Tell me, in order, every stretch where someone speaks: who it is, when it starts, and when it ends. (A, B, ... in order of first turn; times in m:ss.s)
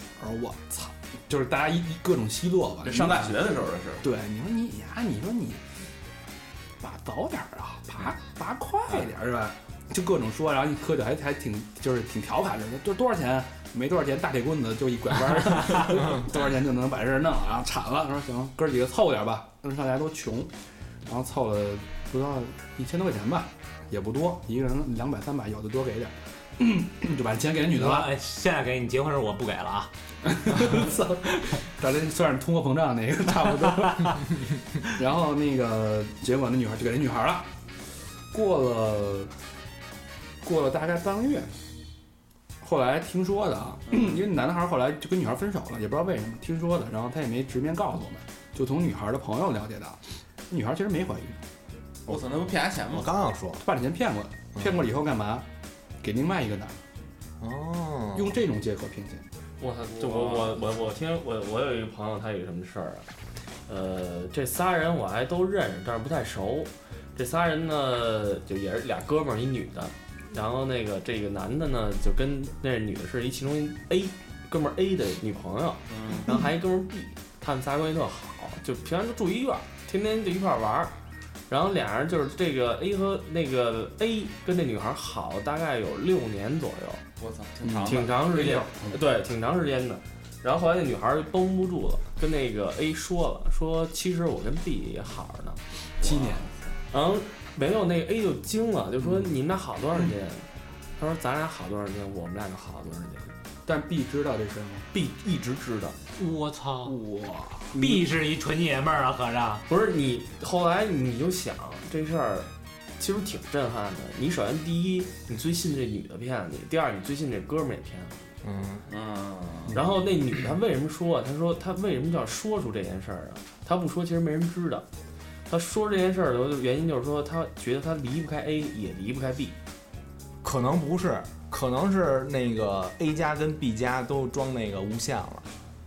0:00.2-0:03.4 A
0:02.8-0:04.1 B
0:04.0-0:05.6 A
0:06.8-0:20.5 A
0:21.1-0:28.1 A
0:27.7-0:29.9 C
0:30.2-0:34.3 A
0:30.5-0:30.8 C
0:33.8-0:34.2 C
0:35.0-0:37.5 A
0:38.3-0:39.3 A
0:40.4-0:41.5 A
0:42.6-0:51.4 A
0:52.1-0:53.1 B
0:52.9-0:53.6 D
0:53.6-0:55.5 A
0:56.0-0:56.8 A
0:57.4-0:58.4 D
0:58.2-0:59.2 A
0:59.6-1:03.1 E
0:59.9-1:00.6 B
1:03.7-1:20.9 E
1:15.9-1:16.3 B
1:21.5-1:27.0 E
1:27.2-1:28.6 B
1:27.6-1:29.0 A
1:27.9-1:35.6 E
1:36.0-1:36.7 B
1:36.0-1:36.4 A
1:36.9-1:40.5 E
1:39.0-1:39.3 A
1:41.0-1:43.4 E
1:43.7-1:44.9 A
1:44.9-1:46.0 E
1:46.2-1:47.0 C
1:46.8-1:48.0 A
1:47.7-1:49.6 C
1:49.7-1:58.2 E
1:58.4-1:58.9 D
1:58.9-1:59.8 B
1:59.7-2:04.8 E
2:05.5-2:09.6 E
2:10.4-2:15.5 D